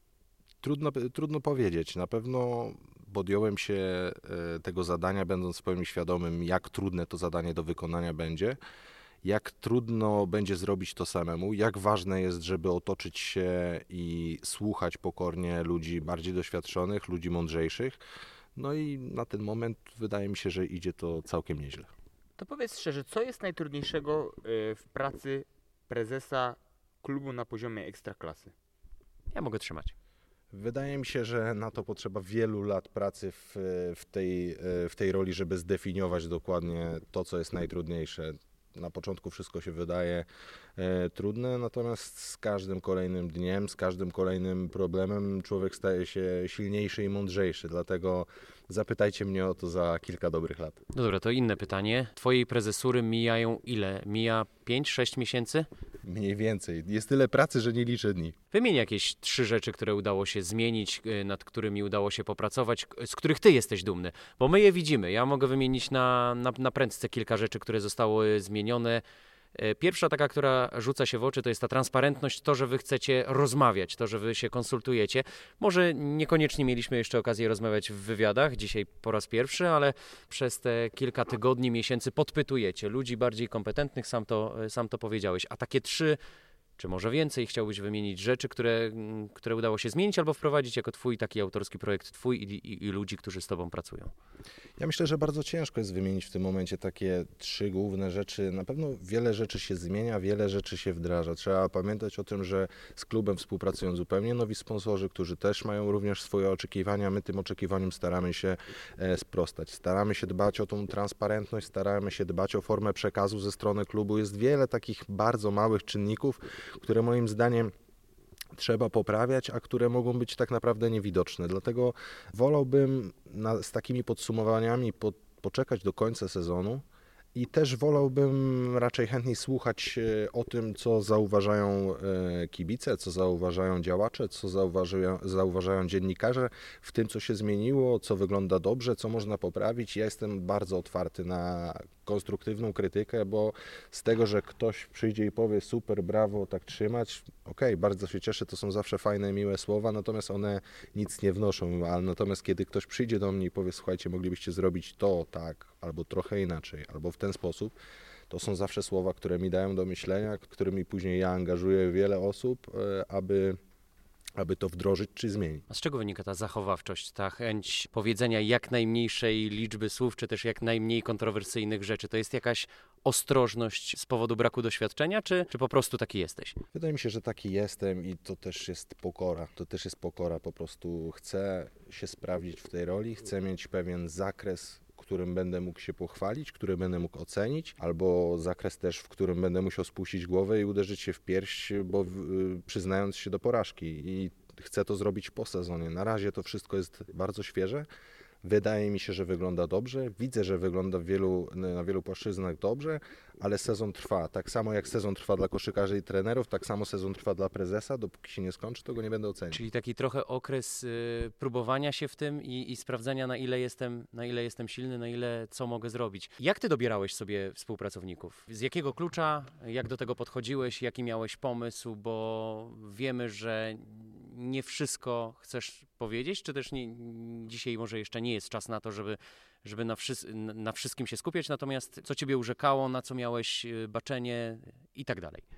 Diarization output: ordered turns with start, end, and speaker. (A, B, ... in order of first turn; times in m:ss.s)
0:00.6-0:08.6 A
0:09.2-0:18.0 A
0:18.6-0:21.9 A
0:22.4-0:28.5 B
0:29.3-0:29.9 C
0:30.5-0:40.3 A
0:40.8-0:50.8 A
0:50.9-0:55.7 C
0:56.0-0:58.4 A
0:58.5-1:09.0 C
1:09.6-1:26.2 C
1:26.8-1:34.1 C
1:34.8-1:57.7 A
1:58.6-2:06.8 A
2:07.4-2:37.7 A
2:38.3-2:43.6 A
2:44.4-2:45.6 A
2:45.7-2:56.6 C
2:56.7-3:17.9 A
3:18.4-3:29.6 A
3:29.5-3:55.4 C